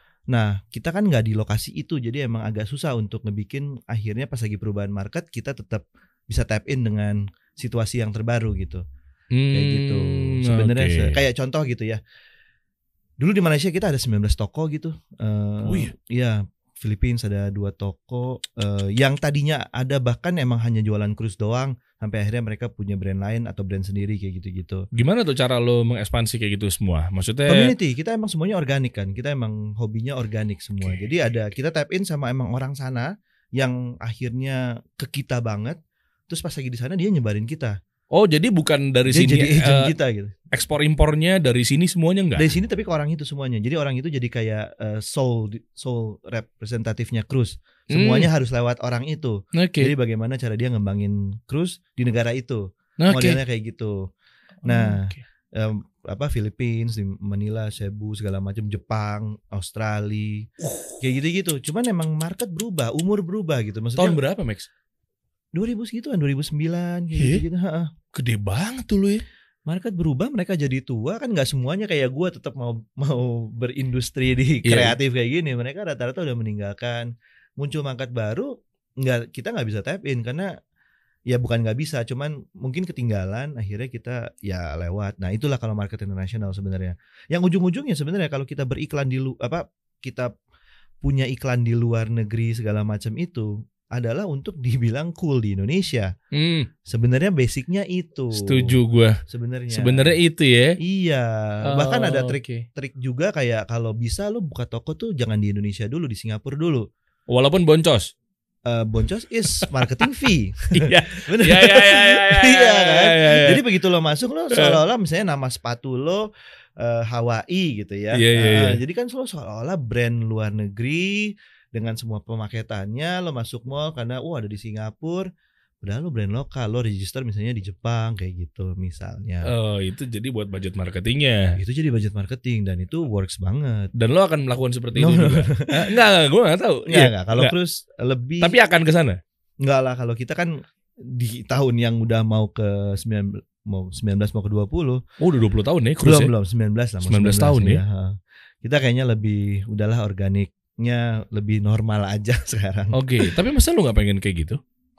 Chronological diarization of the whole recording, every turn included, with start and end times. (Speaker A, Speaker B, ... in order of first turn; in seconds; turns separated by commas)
Speaker A: 0.3-8.8, Speaker B: 9.3-11.2, Speaker A: 9.5-12.0, Speaker A: 13.2-24.9, Speaker B: 15.6-15.9, Speaker B: 24.9-27.7, Speaker A: 27.5-35.8, Speaker A: 36.3-37.8, Speaker B: 38.1-39.9, Speaker A: 39.1-40.4, Speaker B: 40.5-42.5, Speaker A: 42.4-54.1, Speaker B: 47.9-48.3, Speaker B: 49.5-49.9, Speaker B: 53.0-53.4, Speaker B: 54.6-55.2, Speaker A: 54.6-60.5, Speaker B: 60.7-61.0, Speaker A: 61.0-64.2, Speaker B: 64.0-64.7, Speaker A: 65.5-67.9, Speaker B: 67.2-67.4, Speaker B: 68.1-69.2, Speaker A: 69.7-80.5, Speaker B: 74.6-75.0, Speaker A: 81.3-90.3, Speaker A: 91.0-96.1, Speaker B: 96.3-96.7, Speaker A: 96.9-98.8, Speaker B: 98.3-99.2, Speaker A: 99.3-100.2, Speaker B: 99.7-100.8, Speaker A: 100.8-106.9, Speaker B: 101.7-102.7, Speaker B: 107.3-108.1, Speaker A: 108.7-116.2, Speaker B: 110.7-113.6, Speaker B: 114.5-114.8, Speaker A: 116.8-125.3, Speaker B: 118.1-118.8, Speaker A: 125.8-129.5, Speaker B: 129.4-131.6, Speaker A: 131.6-133.9, Speaker B: 133.9-137.5, Speaker A: 134.9-135.9, Speaker A: 136.9-138.6, Speaker B: 138.4-139.2, Speaker A: 139.6-145.0, Speaker B: 145.2-146.3, Speaker A: 146.0-153.3, Speaker B: 147.0-147.8, Speaker B: 152.9-154.6